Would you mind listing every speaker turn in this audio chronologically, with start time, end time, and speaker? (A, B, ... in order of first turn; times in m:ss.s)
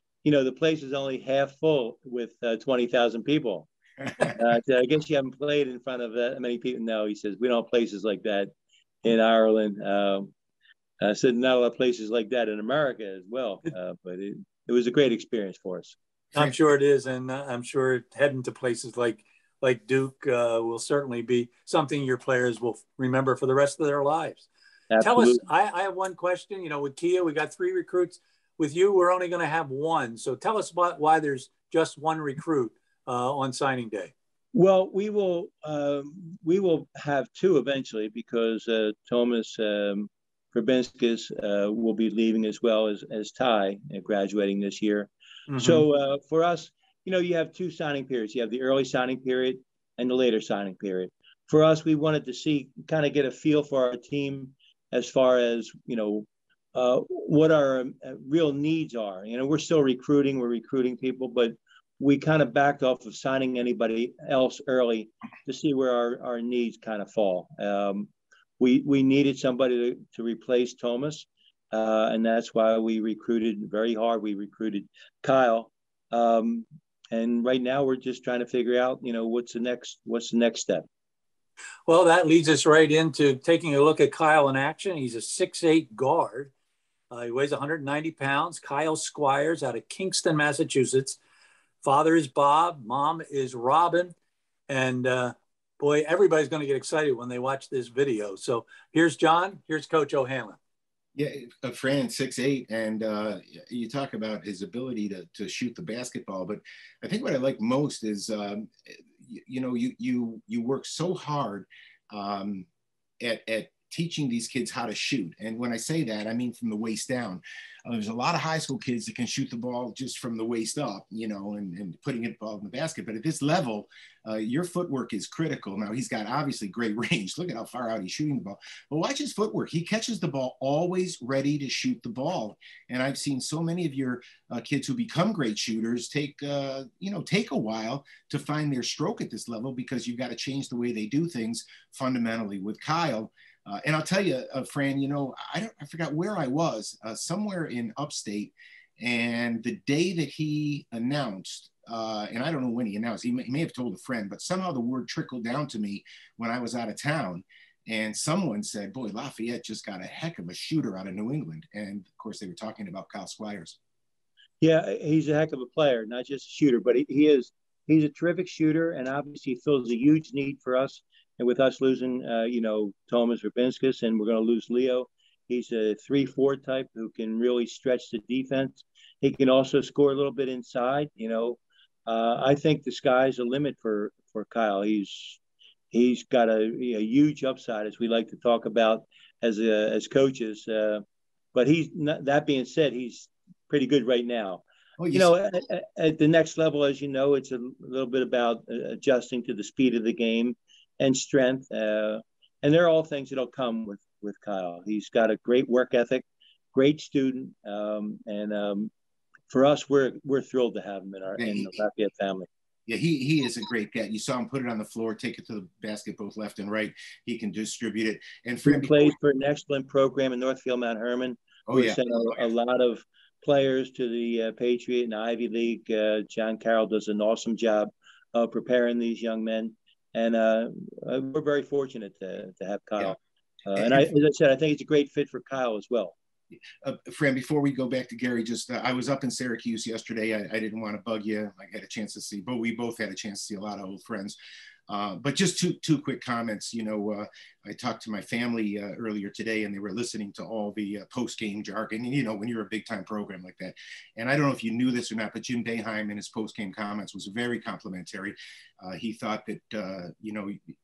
0:00.2-0:03.7 A
0:04.3-0:08.5 A
0:09.0-0:10.3 A
0:11.0-0:16.0 A
0:16.3-0:24.5 B
0:24.9-0:25.4 A
0:25.0-0:34.1 B
0:34.5-1:20.8 A
0:45.5-0:45.8 B
1:21.9-1:26.5 B
1:27.1-1:31.2 B
1:31.8-1:34.1 B
1:34.7-1:40.6 B
1:41.2-1:52.7 C
1:53.2-2:43.8 C
2:44.6-3:05.4 A
3:05.9-3:11.0 A
3:11.5-3:28.9 A
3:15.0-3:15.3 C
3:29.5-3:32.5 A
3:31.4-3:31.7 C
3:32.9-3:39.1 C
3:38.6-3:56.1 A
3:41.7-3:42.4 C
3:53.8-3:54.0 C
3:56.8-4:04.4 C
4:04.9-4:20.6 C